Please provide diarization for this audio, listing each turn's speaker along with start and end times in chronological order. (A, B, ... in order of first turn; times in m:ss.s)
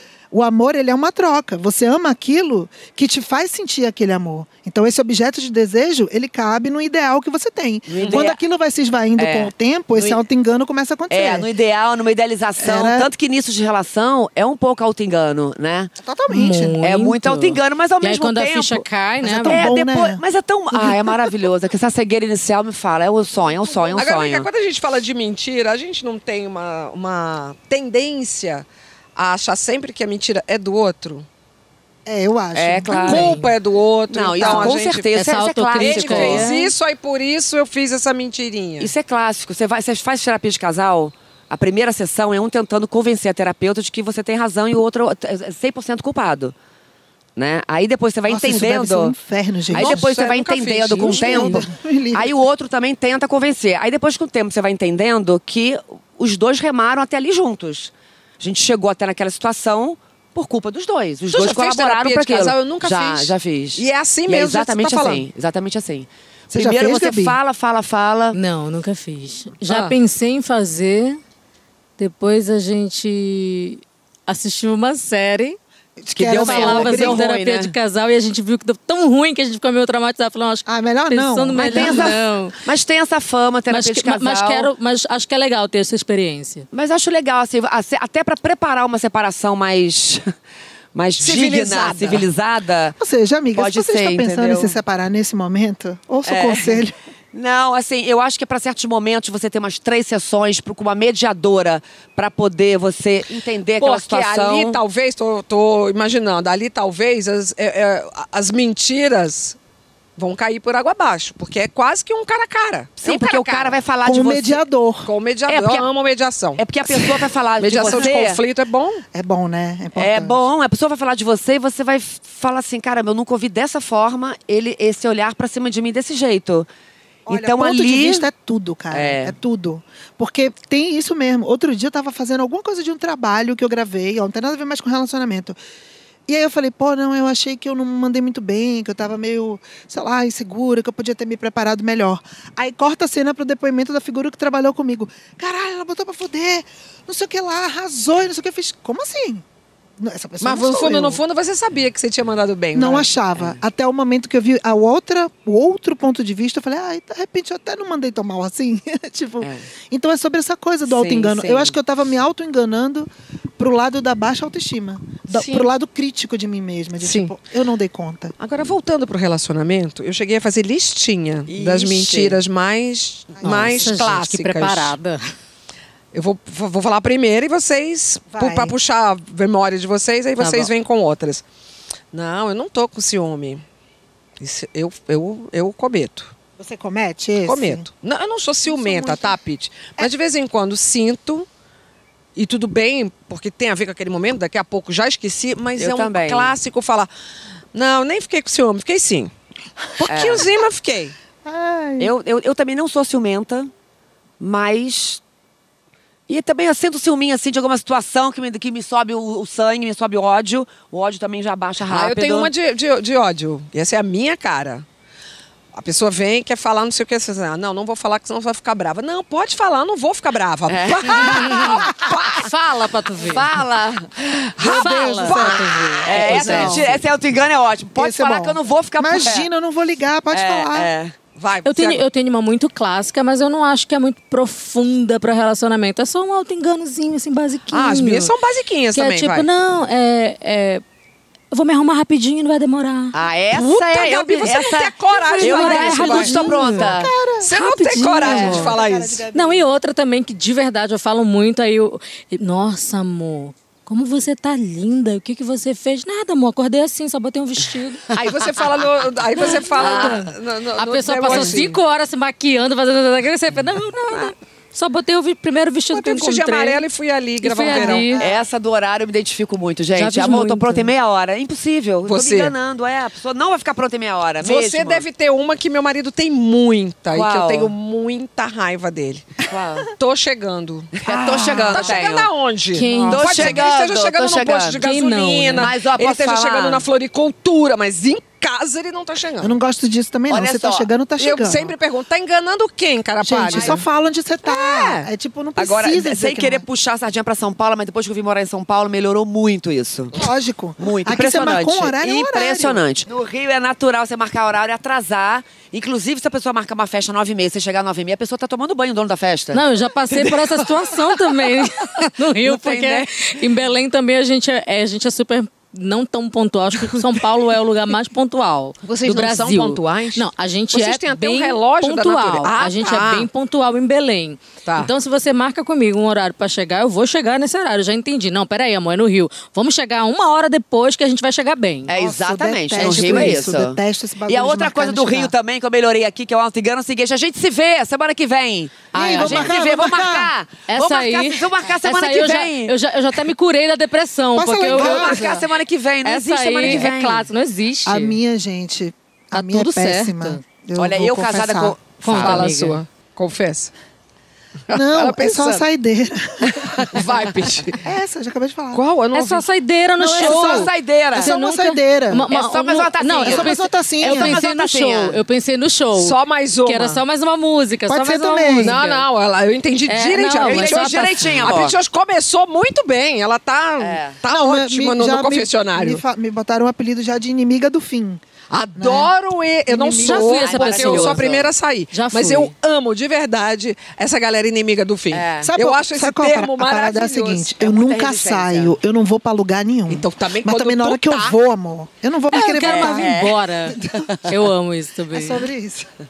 0:00.3-0:11.5 A
0:07.9-0:08.4 B
0:09.2-0:10.2 B
0:11.1-0:15.9 B
0:12.6-0:13.1 A
0:16.0-0:16.8 A
0:16.3-0:19.6 C
0:16.8-0:18.9 B
0:19.2-0:20.2 A
0:19.4-0:24.5 B
0:23.9-0:31.3 D
0:32.1-0:33.3 A
0:32.5-0:33.4 B
0:32.9-0:35.1 D
0:33.1-0:33.4 C
0:34.1-0:36.5 B
0:35.2-0:36.7 C
0:35.8-0:38.9 D
0:38.8-0:46.6 B
0:47.4-0:49.2 B
0:48.3-0:50.2 A
0:49.7-1:08.4 B
0:49.7-0:51.6 D
0:50.9-0:52.4 A
1:01.3-1:05.3 D
1:06.5-1:07.4 A
1:08.3-1:11.2 C
1:09.7-1:10.0 D
1:12.0-1:15.6 C
1:16.0-1:17.2 A
1:16.2-1:17.7 B
1:16.3-1:22.6 C
1:20.7-1:22.1 A
1:21.5-1:24.7 B
1:23.7-1:26.7 C
1:26.7-1:30.3 B
1:30.9-1:33.0 B
1:31.2-1:32.3 D
1:33.0-1:37.0 A
1:33.5-1:34.8 B
1:36.3-1:44.8 B
1:43.8-1:49.6 D
1:50.2-1:53.8 D
1:53.0-1:54.6 B
1:54.0-1:55.1 A
1:55.0-1:59.0 D
1:55.5-1:55.9 B
1:56.6-1:58.4 B
1:59.1-2:00.5 A
2:00.0-2:06.7 B
2:07.3-2:15.6 A
2:07.3-2:08.3 B
2:08.9-2:09.4 B
2:16.3-2:29.4 A
2:30.0-2:31.2 A
2:30.4-2:33.1 D
2:32.7-2:48.3 A
2:40.9-2:41.8 B
2:47.0-2:47.3 D
2:48.4-2:55.0 D
2:51.5-2:52.4 B
2:53.4-2:54.0 A
2:53.5-2:55.2 C
2:56.1-3:01.4 D
2:58.3-2:58.8 A
3:00.4-3:00.7 C
3:02.1-3:03.6 D
3:04.4-3:06.3 D
3:06.6-3:07.9 A
3:07.4-3:11.5 D
3:08.6-3:09.4 A
3:12.4-3:17.1 D
3:15.8-3:16.6 B
3:17.7-3:19.3 D
3:20.0-3:21.2 D
3:20.1-3:20.5 B
3:21.4-3:22.1 A
3:22.0-3:23.7 B
3:24.4-3:25.2 B
3:26.3-3:32.5 B
3:31.9-3:34.9 D
3:35.7-3:42.3 D
3:40.7-3:42.3 B
3:41.2-3:43.5 C
3:43.2-3:44.5 B
3:44.6-3:47.0 A
3:44.6-3:45.6 D
3:44.7-3:46.8 C
3:46.0-3:49.5 B
3:46.1-3:46.8 D
3:48.0-3:50.9 A
3:50.3-3:51.2 B
3:51.4-3:52.0 D
3:51.6-3:58.3 C
3:57.7-3:59.5 D
3:59.0-4:00.8 C
4:01.5-4:03.2 C
4:03.1-4:07.1 B
4:03.5-4:06.9 D
4:05.4-4:06.9 C
4:06.4-4:07.5 A
4:07.4-4:09.2 D
4:07.5-4:08.8 C
4:08.2-4:09.7 A
4:08.2-4:08.6 B
4:09.3-4:18.0 C
4:18.2-4:21.8 D
4:19.7-4:26.8 C
4:19.8-4:20.2 B
4:21.3-4:21.6 B
4:25.9-4:28.4 D
4:27.4-4:28.2 C
4:27.7-4:35.0 B
4:30.0-4:30.9 C
4:32.0-4:32.6 D
4:34.4-4:39.4 D
4:37.1-4:37.7 B
4:39.5-4:39.9 B
4:40.0-4:49.6 D
4:40.9-4:42.3 B
4:42.7-4:43.6 C
4:43.1-4:44.8 B
4:44.8-4:45.7 C
4:45.6-4:46.8 B
4:49.4-4:51.7 A
4:50.3-4:50.9 B
4:51.2-4:53.8 D
4:53.2-4:56.6 A
4:53.5-4:53.8 B
4:54.5-4:55.1 D
4:55.6-5:00.1 B
5:00.1-5:02.8 A
5:00.8-5:10.9 B
5:09.5-5:31.9 C
5:12.4-5:13.3 B
5:18.8-5:23.3 D
5:24.6-5:24.9 D
5:31.9-5:42.7 B
5:31.9-5:35.3 A
5:32.8-5:33.4 C
5:38.9-5:40.3 A
5:39.0-5:39.5 C
5:40.7-5:45.3 C
5:44.4-5:45.5 A
5:44.6-5:47.3 B
5:46.0-5:48.2 C
5:47.9-5:52.0 A
5:49.3-5:50.4 C
5:50.8-5:52.5 B
5:52.0-5:52.8 C
5:52.0-5:53.7 D
5:54.7-5:55.6 D
5:54.7-5:56.8 A
5:56.9-5:57.8 D
5:57.8-5:58.8 A
5:58.7-5:59.5 D
5:59.1-6:09.1 C
6:00.0-6:01.3 B
6:00.2-6:02.3 A
6:00.2-6:00.6 D
6:02.3-6:05.2 B
6:03.2-6:04.4 A
6:06.0-6:07.0 D
6:07.9-6:08.8 A
6:08.6-6:16.0 D
6:09.9-6:11.5 C
6:10.4-6:11.8 B
6:13.8-6:14.2 B
6:14.3-6:18.2 A
6:18.5-6:27.5 D
6:18.8-6:19.1 A
6:19.7-6:20.4 A
6:20.0-6:21.2 C
6:20.1-6:21.5 B
6:21.9-6:22.5 C
6:25.1-6:25.5 B
6:25.4-6:33.1 A
6:27.6-6:28.8 B
6:29.9-6:31.4 D
6:32.3-6:35.4 C
6:32.5-6:33.4 B
6:33.7-6:34.1 A
6:35.1-6:35.9 A